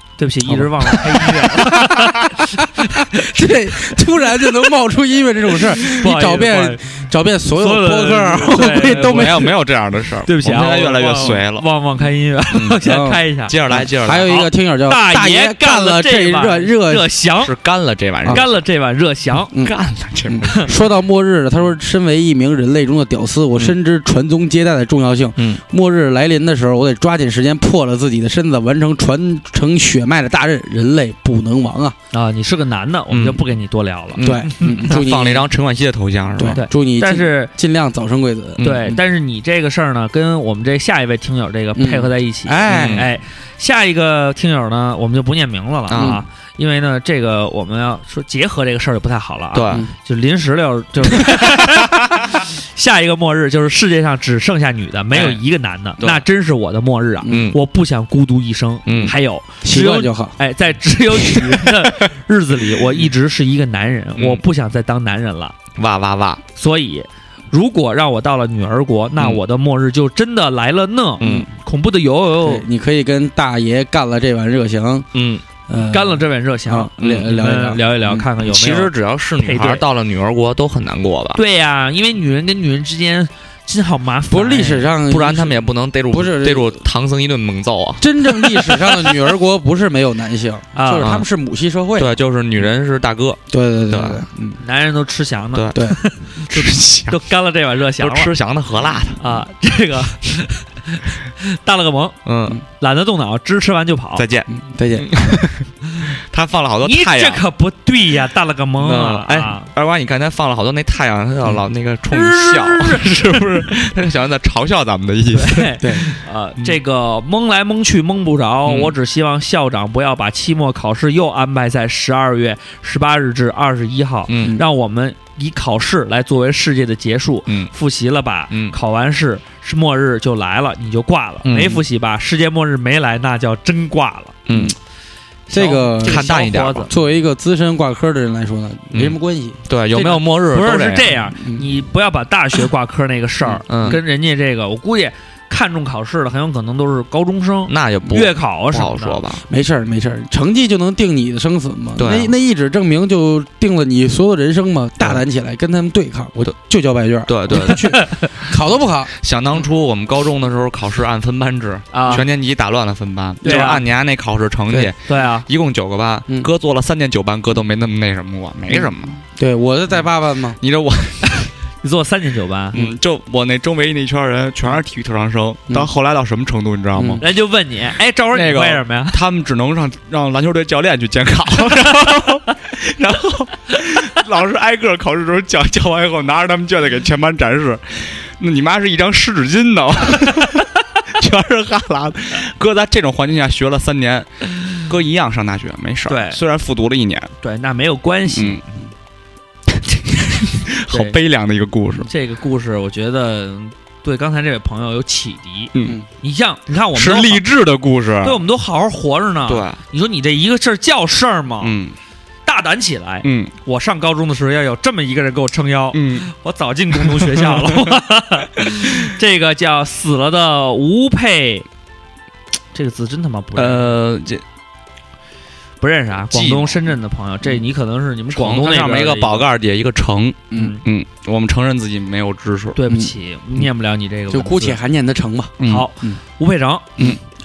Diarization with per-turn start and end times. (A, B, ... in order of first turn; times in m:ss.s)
0:00.2-0:03.3 A
0:00.5-0:02.1 B
0:02.8-0:09.6 B
0:05.6-0:09.5 A
0:08.9-0:11.7 C
0:10.3-0:13.5 A
0:12.5-0:12.8 C
0:12.8-0:17.1 B
0:13.5-0:14.4 C
0:14.2-0:17.5 A
0:17.4-0:18.5 C
0:18.3-0:19.5 A
0:19.6-0:20.7 C
0:20.3-0:32.0 B
0:32.1-0:35.0 A
0:33.1-0:33.5 C
0:34.1-0:36.6 C
0:34.2-0:35.5 B
0:36.4-0:38.9 B
0:36.5-0:37.5 A
0:38.6-0:39.0 C
0:38.6-1:05.6 A
0:41.8-0:43.1 B
0:42.7-0:43.1 C
0:45.9-0:46.2 C
0:46.0-0:46.2 B
0:49.5-0:49.9 C
0:55.1-0:55.4 C
0:56.0-0:56.2 C
0:57.3-0:57.6 C
0:58.9-0:59.2 C
0:59.6-1:00.4 B
1:05.8-1:06.4 C
1:06.6-1:12.6 A
1:11.2-1:11.5 C
1:12.4-1:15.1 B
1:15.2-1:15.4 C
1:15.7-1:18.3 B
1:15.9-1:19.8 A
1:17.0-1:17.4 C
1:18.4-1:21.4 C
1:21.4-1:24.9 A
1:24.3-1:25.6 B
1:25.1-1:28.1 C
1:26.1-1:26.8 B
1:28.0-1:32.1 B
1:30.8-1:31.2 A
1:32.0-1:34.2 C
1:33.5-1:34.6 B
1:34.6-1:38.3 A
1:35.6-1:35.8 C
1:36.5-1:37.2 C
1:38.0-1:39.2 C
1:39.2-1:42.2 A
1:42.2-1:42.6 C
1:42.8-1:44.2 A
1:44.2-1:47.4 C
1:44.5-1:45.4 B
1:46.8-1:49.7 A
1:48.8-1:55.8 C
1:52.1-1:53.8 A
1:55.3-2:14.4 A
1:58.7-1:59.0 C
2:04.3-2:04.6 C
2:08.5-2:08.8 C
2:11.4-2:11.8 C
2:14.5-2:14.8 C
2:15.5-2:16.9 A
2:15.5-2:16.3 B
2:16.0-2:16.9 C
2:16.9-2:20.2 B
2:18.9-2:19.2 C
2:19.7-2:21.2 C
2:20.0-2:29.2 A
2:21.4-2:21.6 B
2:23.7-2:24.0 C
2:27.7-2:29.4 C
2:29.5-2:39.1 B
2:32.0-2:32.3 C
2:37.3-2:37.9 C
2:37.7-2:38.3 A
2:39.2-2:49.2 C
2:41.9-2:42.2 A
2:43.4-2:43.8 A
2:43.5-2:43.7 B
2:45.1-2:45.5 A
2:48.7-2:50.6 B
2:50.6-2:51.5 C
2:51.3-2:52.8 A
2:52.7-2:57.2 C
2:57.0-2:57.2 B
2:57.2-2:59.2 A
2:58.3-3:17.3 C
3:16.1-3:16.4 A
3:17.4-3:18.6 A
3:18.3-3:18.6 C
3:20.1-3:22.1 C
3:20.9-3:21.2 A
3:22.1-3:27.4 A
3:26.9-3:28.4 C
3:28.2-3:31.7 A
3:29.5-3:29.8 C
3:31.6-3:31.9 C
3:32.5-3:41.7 A
3:33.2-3:33.5 C
3:35.9-3:36.3 C
3:37.0-3:37.8 C
3:42.7-3:44.0 A
3:43.6-3:44.4 C
3:45.8-3:49.5 A
3:46.3-3:47.0 C
3:48.3-3:52.8 C
3:52.8-3:54.8 A
3:52.9-3:53.1 B
3:54.3-3:56.2 B
3:55.6-3:55.9 C
3:55.6-3:57.0 A